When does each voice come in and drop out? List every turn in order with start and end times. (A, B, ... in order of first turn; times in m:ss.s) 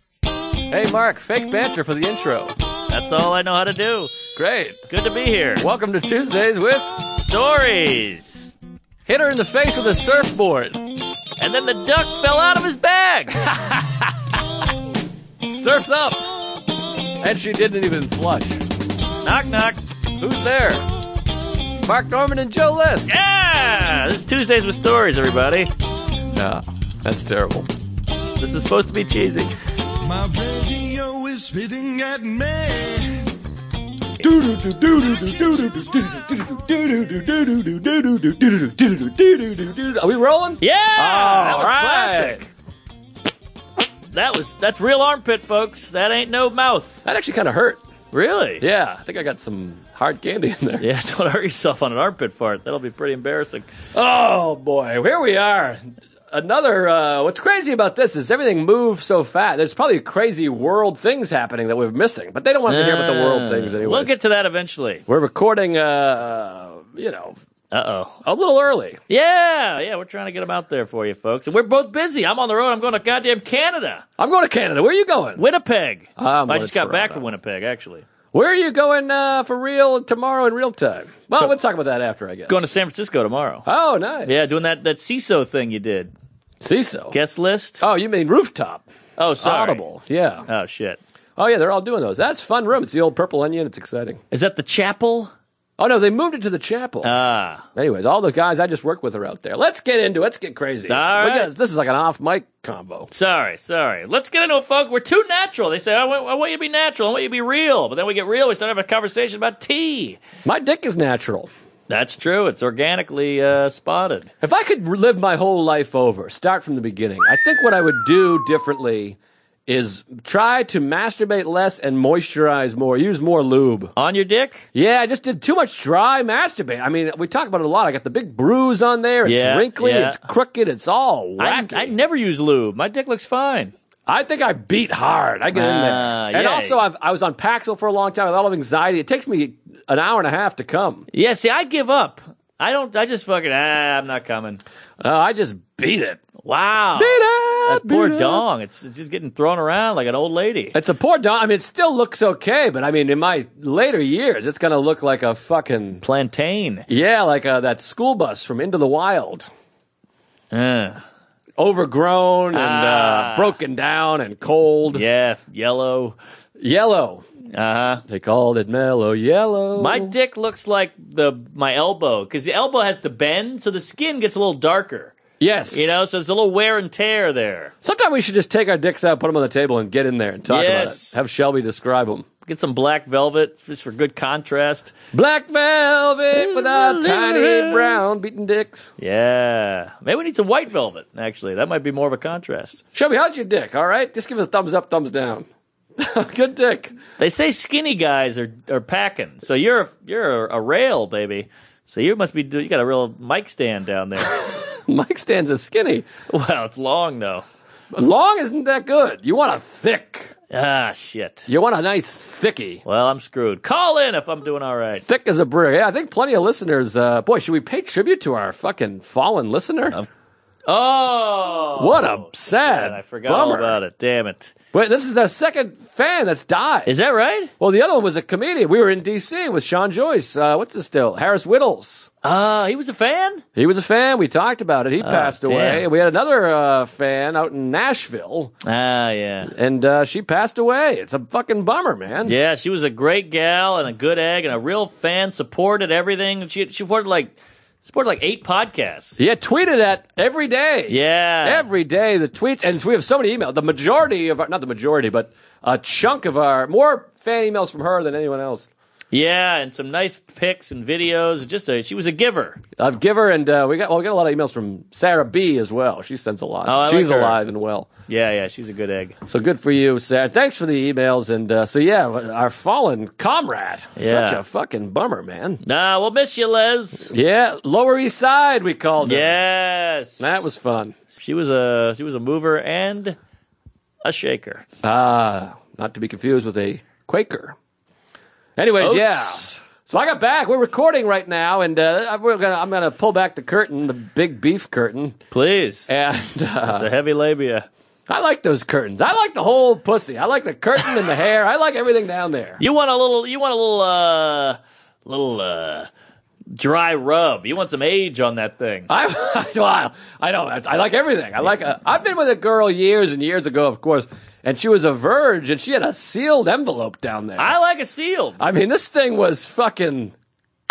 0:00.7-0:02.5 A
0:02.9-0:04.1 B
0:04.3-0:04.8 A
0:04.9-0:05.6 B
0:05.6-0:06.9 A
0:07.2-0:08.5 B
0:09.1-0:10.8 A
0:11.4-0:13.3 B
0:13.4-0:14.1 A
0:15.5-0:16.2 A
0:17.2-0:18.6 A
0:19.2-0:19.8 B
0:20.2-0:20.8 A
0:21.8-0:23.1 A
0:23.1-0:25.7 B
0:26.3-0:27.7 A
0:28.4-0:29.5 B
0:30.0-0:33.3 C
0:34.2-0:42.4 A
0:40.6-0:42.5 B
0:44.1-0:47.0 B
0:47.0-0:47.8 A
0:48.1-0:48.6 B
0:48.6-0:50.8 A
0:50.8-0:53.7 B
0:53.9-1:04.1 A
1:02.7-1:05.0 B
1:05.1-1:07.4 A
1:07.7-1:08.2 B
1:08.2-1:09.0 A
1:09.1-1:14.0 B
1:14.2-1:15.4 A
1:15.4-1:18.0 B
1:16.2-1:17.3 A
1:18.3-1:22.6 A
1:22.5-1:23.6 B
1:23.6-1:24.5 A
1:24.2-1:26.1 B
1:26.6-1:27.2 A
1:27.1-1:27.8 B
1:27.8-1:28.8 A
1:29.2-1:29.8 B
1:29.4-1:30.4 A
1:30.5-1:31.0 B
1:31.4-1:34.2 A
1:34.3-1:35.3 B
1:35.8-1:37.1 A
1:37.0-1:37.6 B
1:37.8-1:43.1 A
1:40.9-1:41.5 B
1:43.1-1:50.2 B
1:50.4-1:51.5 A
1:51.9-1:54.3 B
1:54.4-2:03.9 A
2:04.0-2:04.6 B
2:04.7-2:11.9 A
2:09.2-2:10.2 B
2:11.4-2:13.7 B
2:14.1-2:21.1 A
2:15.5-2:16.8 B
2:21.1-2:24.6 B
2:25.0-2:26.2 A
2:26.4-2:30.8 B
2:27.0-2:28.4 A
2:30.7-2:36.0 A
2:36.0-2:36.8 B
2:36.9-2:39.5 A
2:40.5-2:41.0 B
2:41.6-2:45.0 A
2:42.5-2:43.5 B
2:44.9-2:46.2 B
2:46.6-2:47.2 A
2:47.5-2:48.0 B
2:48.1-2:50.1 A
2:49.8-2:55.2 B
2:55.4-2:55.9 A
2:55.7-2:57.7 B
2:57.8-3:02.2 A
3:00.5-3:01.2 B
3:02.4-3:04.9 B
3:05.1-3:08.9 A
3:06.3-3:08.0 B
3:09.0-3:12.8 B
3:12.9-3:15.4 A
3:16.0-3:17.0 A
3:17.2-3:24.4 B
3:24.4-3:26.1 A
3:26.3-3:27.4 B
3:27.9-3:30.3 A
3:30.5-3:31.5 B
3:31.5-3:32.8 A
3:32.8-3:35.0 B
3:35.0-3:40.0 A
3:40.7-3:44.5 B
3:41.8-3:43.8 A
3:44.7-3:46.9 A
3:46.8-3:47.5 B
3:47.6-3:52.1 A
3:52.2-3:53.4 B
3:53.6-3:58.5 A
3:55.0-3:55.9 B
3:58.6-3:59.5 B
3:59.5-4:02.3 A
4:02.2-4:09.2 B
4:09.2-4:18.7 A
4:10.9-4:11.6 B
4:19.1-4:22.6 B
4:22.8-4:27.9 A
4:26.6-4:27.4 B
4:28.1-4:29.2 B
4:29.3-4:35.6 A
4:34.0-4:34.4 B
4:35.6-4:37.1 B
4:37.1-4:39.3 A
4:39.0-4:40.4 B
4:40.2-4:41.0 A
4:41.2-4:43.2 B
4:44.0-4:44.6 B
4:44.8-4:47.6 A
4:48.6-4:55.2 A
4:48.8-4:49.5 B
4:55.3-4:55.9 B
4:55.9-4:56.9 A
4:56.6-4:57.7 B
4:58.1-5:02.6 A
5:02.6-5:05.9 B
5:06.6-5:08.9 B
5:08.9-5:17.5 A
5:17.4-5:18.4 B
5:18.4-5:20.1 A